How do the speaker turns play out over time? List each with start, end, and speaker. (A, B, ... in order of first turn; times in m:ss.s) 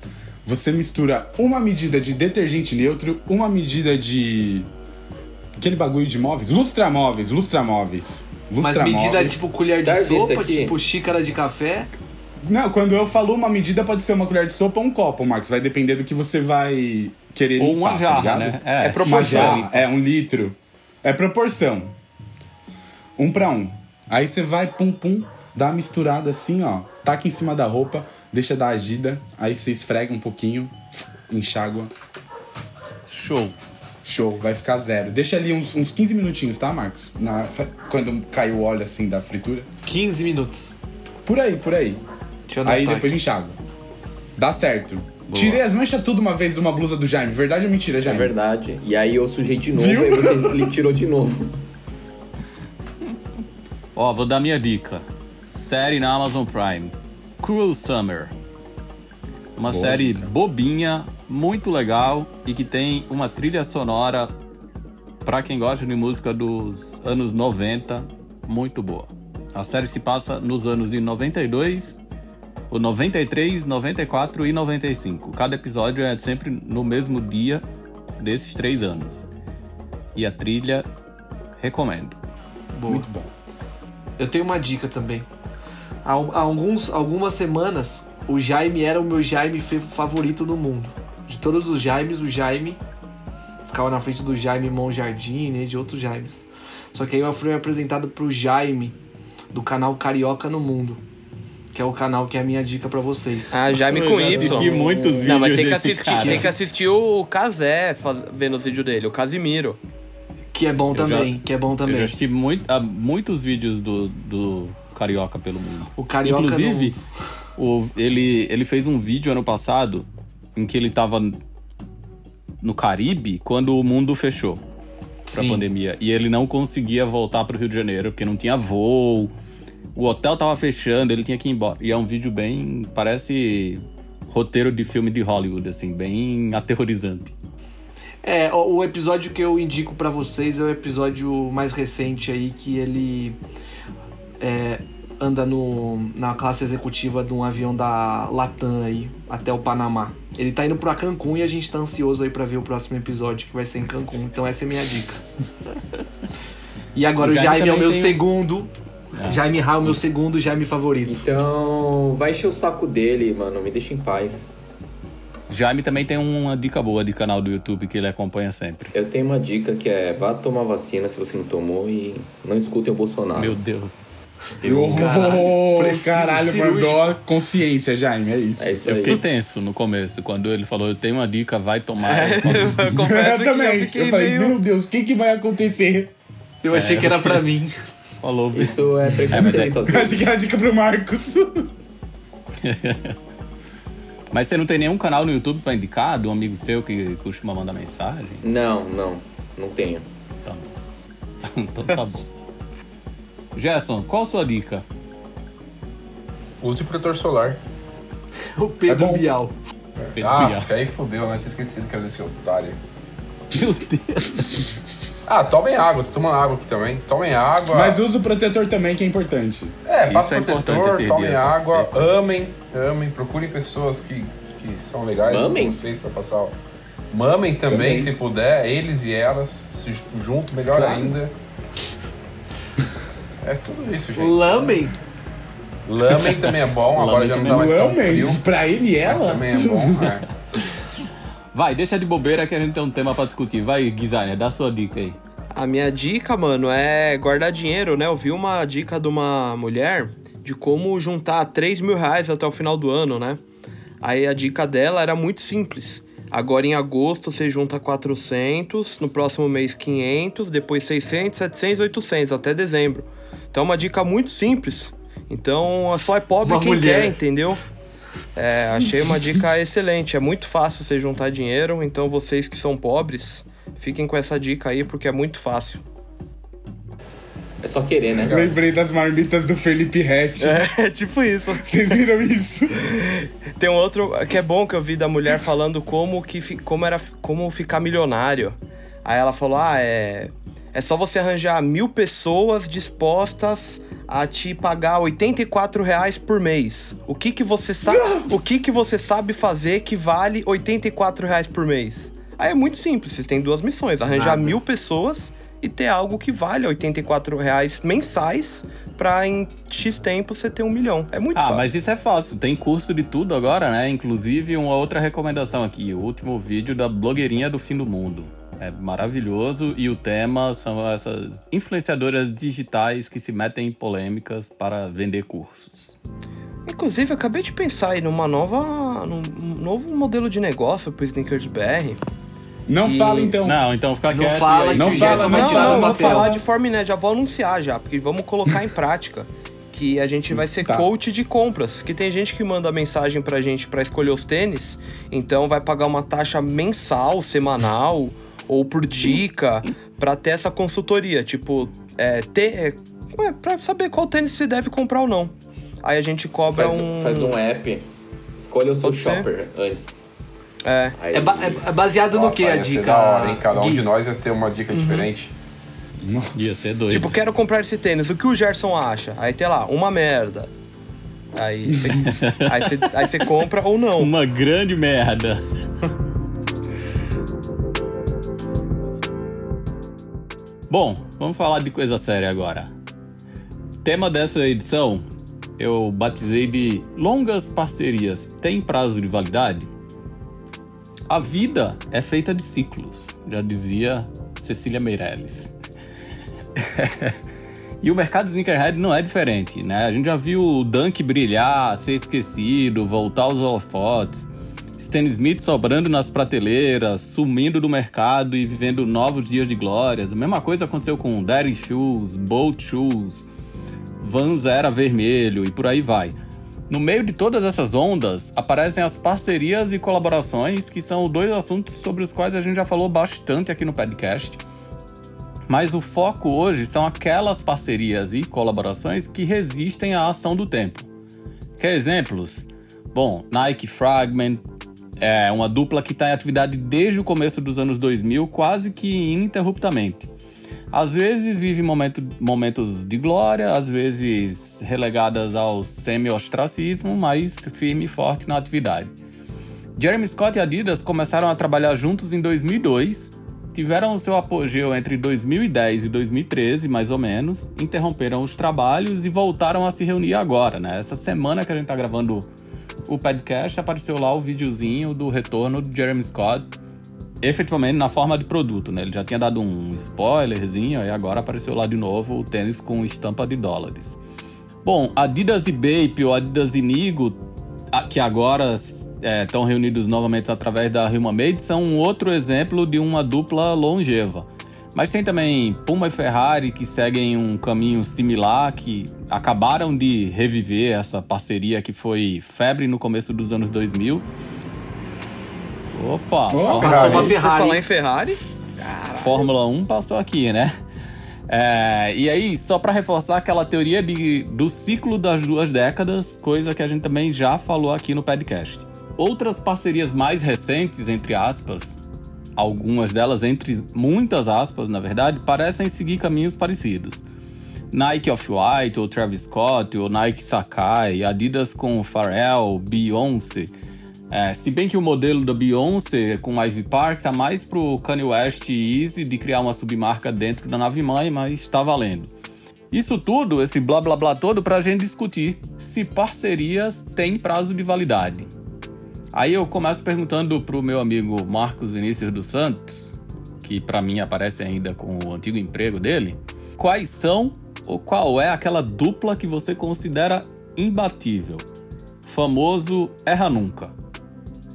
0:00.4-0:04.7 A
0:05.6-0:09.4 A
0:08.6-0:11.9 B
0:09.8-0:10.8 C
0:12.4-0:22.0 A
0:17.6-0:19.7 D
0:18.8-0:19.7 E
0:23.2-0:30.7 A
0:31.3-0:31.9 A
0:33.1-0:33.5 D
0:34.0-0:39.7 A
0:39.8-0:40.7 B
0:41.2-0:42.0 A
0:42.5-0:43.2 B
0:42.6-0:43.6 A
0:44.4-0:48.3 A
0:45.3-0:45.6 D
0:48.0-0:51.6 C
0:49.7-0:50.8 A
0:54.0-0:58.3 D
0:59.6-1:04.3 D
0:59.6-1:00.3 A
1:05.2-1:12.0 D
1:12.7-1:17.6 D
1:18.2-1:19.3 D
1:20.1-1:20.8 D
1:21.6-1:22.2 D
1:22.7-1:23.1 B
1:22.8-1:23.3 A
1:24.2-1:25.2 B
1:26.0-1:32.8 B
1:33.7-1:39.0 B
1:39.5-1:41.0 B
1:41.7-1:43.7 B
1:43.5-1:49.8 E
1:43.9-1:46.5 D
1:44.2-1:45.3 C
1:46.2-1:46.5 B
1:50.5-1:52.1 B
1:50.9-1:57.0 D
1:56.0-1:57.0 B
1:57.6-2:01.4 D
2:02.6-2:04.6 D
2:05.3-2:05.7 B
2:05.3-2:09.3 D
2:09.9-2:17.3 D
2:18.2-2:23.4 B
2:24.4-2:35.2 B
2:36.9-2:41.2 B
2:37.2-2:38.2 D
2:39.2-2:39.4 D
2:41.0-2:44.5 C
2:45.5-2:48.9 D
2:48.9-2:53.6 C
2:53.4-2:54.0 D
2:54.6-2:55.3 D
2:54.6-2:59.1 A
2:55.0-2:57.1 B
2:58.6-2:59.2 C
2:59.0-3:02.9 D
3:02.0-3:04.6 E
3:02.9-3:06.1 A
3:06.6-3:07.7 B
3:06.7-3:07.5 D
3:08.2-3:09.7 D
3:08.5-3:10.2 C
3:09.2-3:11.7 A
3:12.6-3:13.1 D
3:14.3-3:18.4 D
3:18.4-3:20.0 C
3:20.4-3:20.7 D
3:21.4-3:22.2 D
3:23.5-3:24.8 D
3:26.6-3:27.6 F
3:28.6-3:29.5 B
3:28.9-3:29.3 A
3:30.0-3:32.8 F
3:30.2-3:30.7 D
3:33.5-3:34.6 D
3:35.2-3:38.0 F
3:37.6-3:39.7 A
3:39.8-3:46.5 F
3:40.1-3:42.1 D
3:45.2-3:45.8 C
3:47.1-3:51.3 F
3:47.7-3:48.1 A
3:53.4-3:54.8 F
3:54.2-3:54.9 B
3:55.8-3:58.4 F
3:56.2-3:58.0 D
3:57.4-4:00.1 A
3:59.0-4:00.6 F
3:59.0-3:59.6 D
4:01.5-4:05.2 D
4:05.5-4:13.4 E
4:14.0-4:27.6 E
4:26.4-4:27.2 B
4:28.3-4:35.8 E
4:37.6-4:38.5 C
4:38.3-4:40.6 A
4:40.4-4:42.0 E
4:41.6-4:42.8 A
4:42.8-5:11.7 E
4:57.9-4:58.3 A
5:04.1-5:04.6 B
5:11.3-5:26.0 D
5:26.6-5:32.0 E
5:32.7-5:33.6 A
5:32.8-5:33.3 B
5:33.4-5:35.9 D
5:34.1-5:36.4 B
5:34.7-5:36.3 A
5:35.0-5:57.4 E
5:40.3-5:40.9 A
5:56.5-5:57.8 C
5:58.4-6:00.0 C
5:58.8-5:59.3 E
6:00.6-6:01.0 E
6:00.9-6:01.7 C
6:01.1-6:03.8 B
6:02.1-6:05.3 F
6:04.7-6:05.1 E
6:06.0-6:06.8 A
6:06.4-6:07.2 D
6:06.9-6:10.5 E
6:11.3-6:14.1 E
6:12.0-6:12.9 D
6:14.0-6:15.4 D
6:20.7-6:22.7 D
6:23.8-6:25.0 D
6:25.6-6:29.7 D
6:31.1-6:35.5 D
6:36.6-6:37.2 D
6:37.8-6:53.3 D
6:54.0-6:56.1 D
6:56.7-7:04.4 D
7:05.5-7:10.9 D
7:11.6-7:14.4 D
7:15.0-7:20.1 D
7:20.7-7:28.9 D
7:29.8-7:42.3 D
7:42.9-7:46.5 D
7:47.2-7:54.0 D
7:54.6-7:57.2 D
7:57.7-8:14.0 D
8:15.7-8:17.1 D
8:16.3-8:17.1 A
8:16.5-8:19.3 E
8:16.6-8:17.6 B
8:16.7-8:17.0 F
8:18.9-8:20.5 D
8:21.3-8:31.8 D
8:32.4-8:37.0 D
8:37.7-8:43.5 D
8:44.1-8:52.1 D
8:52.7-8:58.3 D
8:59.1-9:11.4 D
9:12.0-9:13.7 D